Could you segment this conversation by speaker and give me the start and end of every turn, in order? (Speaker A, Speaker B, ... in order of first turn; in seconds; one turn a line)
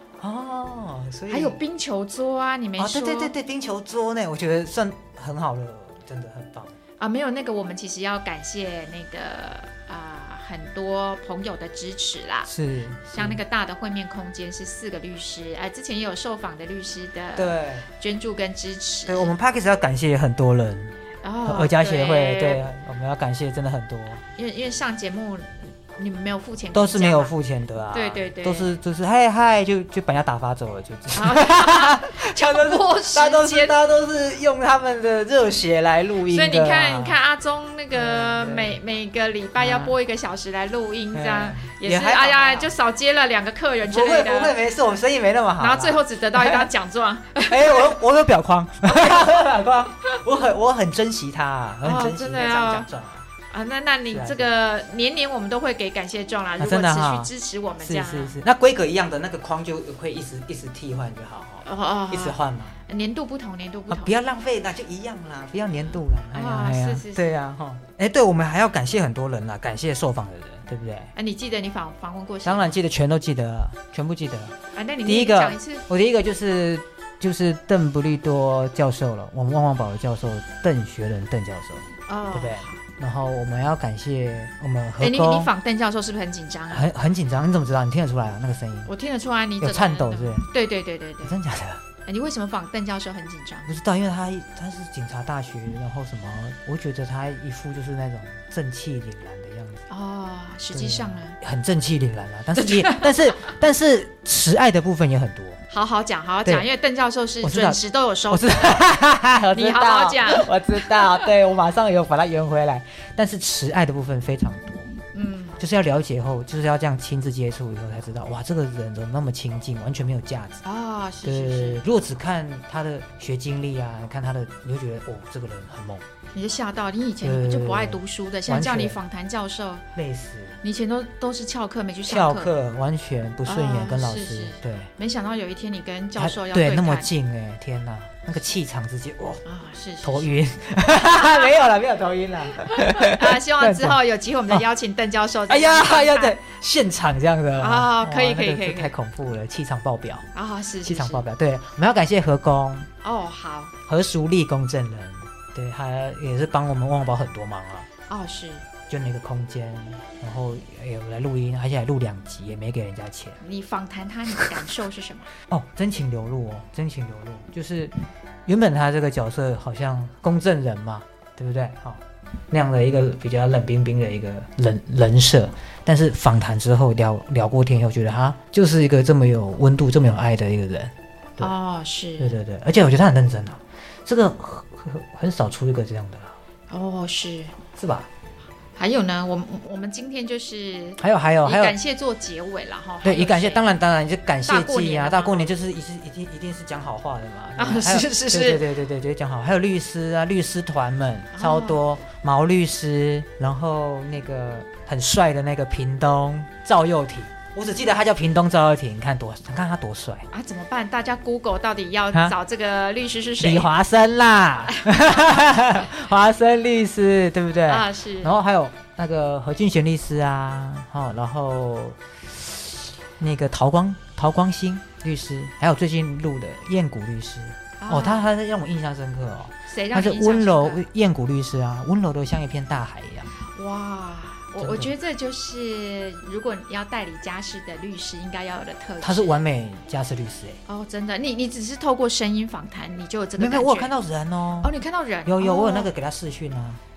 Speaker A: 0.2-1.6
Speaker B: 1.3-3.3
Speaker A: 2.8-6.7
Speaker B: 7.0-12.5
Speaker A: 12.4-13.4
Speaker B: 13.1-19.3
Speaker A: 17.4-17.9
Speaker A: 19.1-24.2
Speaker B: 21.2-22.7
Speaker B: 24.3-27.3
Speaker A: 26.7-37.2
Speaker B: 27.9-28.7
Speaker B: 31.1-33.8
Speaker B: 36.3-44.5
Speaker A: 37.9-38.8
Speaker A: 39.6-40.0
Speaker A: 41.1-42.7
Speaker A: 43.8-46.7
Speaker B: 45.6-48.0
Speaker A: 47.4-53.2
Speaker B: 48.8-49.5
Speaker B: 51.8-52.9
Speaker B: 53.5-58.4
Speaker A: 54.1-54.5
Speaker A: 56.6-57.3
Speaker A: 57.8-62.8
Speaker B: 61.6-64.1
Speaker A: 63.9-71.1
Speaker B: 66.3-67.2
Speaker B: 71.1-72.7
Speaker A: 72.4-74.5
Speaker B: 74.7-75.8
Speaker A: 75.0-85.5
Speaker B: 82.1-82.8
Speaker B: 85.0-86.8
Speaker A: 86.7-88.9
Speaker B: 88.8-91.3
Speaker A: 89.6-90.5
Speaker A: 91.2-91.8
Speaker B: 92.0-93.7
Speaker A: 93.7-99.8
Speaker B: 99.9-101.3
Speaker A: 100.7-105.6
Speaker B: 102.6-103.5
Speaker B: 105.7-108.8
Speaker A: 107.4-115.0
Speaker B: 109.5-111.0
Speaker B: 115.1-115.6
Speaker A: 115.6-120.6
Speaker B: 120.6-121.8
Speaker A: 121.2-126.0
Speaker B: 126.3-129.8
Speaker A: 127.2-129.0
Speaker A: 129.9-130.6
Speaker B: 130.6-132.5
Speaker A: 132.1-134.9
Speaker B: 133.4-137.1
Speaker A: 136.2-139.4
Speaker B: 139.4-140.3
Speaker A: 140.0-144.0
Speaker B: 141.2-141.5
Speaker B: 142.6-146.4
Speaker A: 145.5-150.3
Speaker B: 147.6-148.9
Speaker B: 150.3-151.2
Speaker A: 150.8-152.9
Speaker B: 153.0-153.7
Speaker A: 153.9-157.9
Speaker B: 158.1-158.7
Speaker A: 158.9-163.4
Speaker B: 163.4-165.3
Speaker A: 165.5-167.9
Speaker A: 168.4-181.5
Speaker B: 181.4-182.3
Speaker A: 182.2-186.3
Speaker B: 186.7-187.6
Speaker A: 187.8-188.1
Speaker B: 188.8-193.7
Speaker A: 191.0-191.8
Speaker A: 193.0-210.3
Speaker B: 194.5-195.5
Speaker B: 197.6-198.7
Speaker B: 201.3-201.8
Speaker B: 210.3-213.7
Speaker A: 213.4-233.3
Speaker B: 214.7-215.8
Speaker B: 217.7-218.3
Speaker B: 227.8-228.3
Speaker B: 229.7-230.8
Speaker B: 233.4-239.4
Speaker A: 234.6-234.9
Speaker A: 239.0-240.6
Speaker B: 240.7-243.9
Speaker A: 243.4-244.7
Speaker B: 244.6-245.9
Speaker A: 245.2-246.8